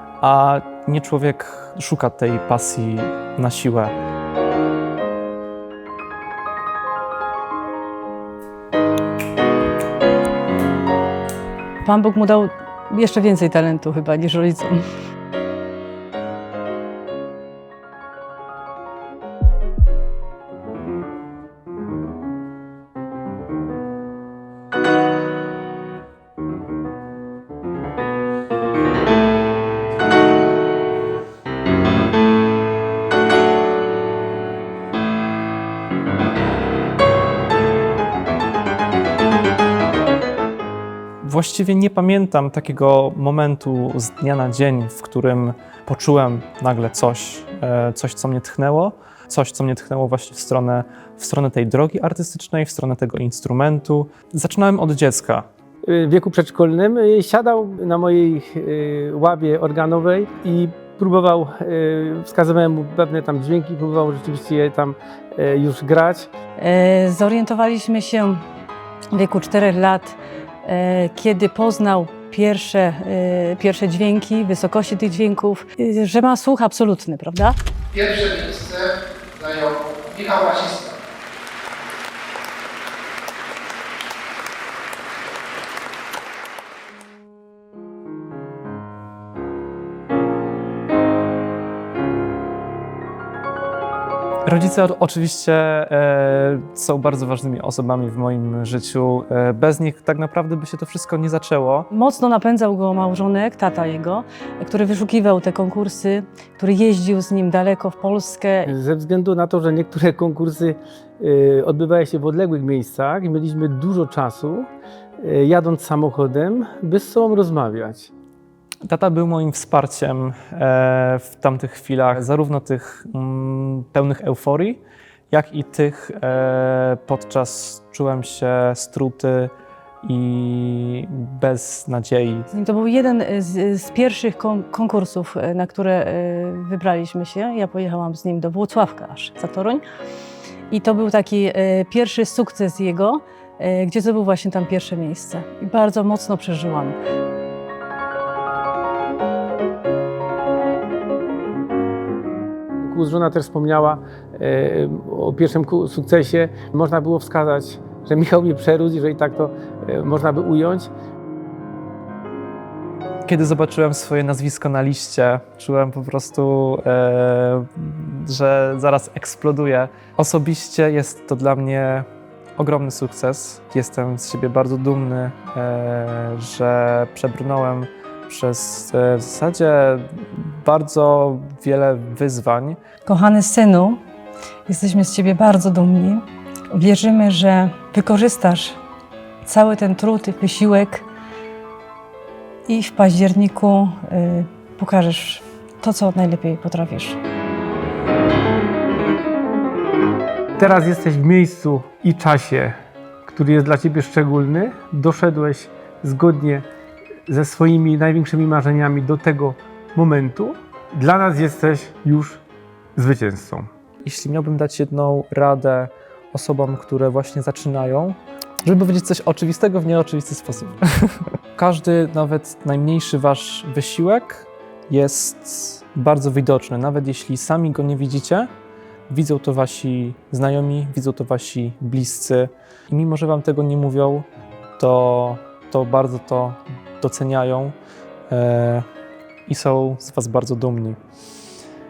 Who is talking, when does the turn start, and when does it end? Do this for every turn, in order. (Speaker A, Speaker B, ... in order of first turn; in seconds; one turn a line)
Speaker A: 0.2-3.9
Speaker B: 11.8-14.8
Speaker A: 41.2-55.5
Speaker C: 55.8-66.3
Speaker B: 66.6-68.4
Speaker B: 69.1-77.5
Speaker D: 77.9-81.0
Speaker A: 94.5-101.9
Speaker B: 101.9-108.7
Speaker C: 108.7-118.1
Speaker A: 118.8-124.8
Speaker A: 125.3-129.5
Speaker A: 130.0-132.5
Speaker B: 132.5-139.8
Speaker B: 140.7-146.9
Speaker C: 152.8-160.9
Speaker A: 163.2-172.1
Speaker A: 172.6-182.8
Speaker B: 183.1-184.0
Speaker B: 184.7-188.8
Speaker B: 189.4-191.1
Speaker B: 192.7-197.2
Speaker C: 200.6-206.7
Speaker C: 207.3-212.4
Speaker C: 212.9-213.7
Speaker A: 214.0-228.5
Speaker A: 229.1-234.3
Speaker A: 234.8-237.8
Speaker A: 238.3-238.8
Speaker A: 239.5-241.0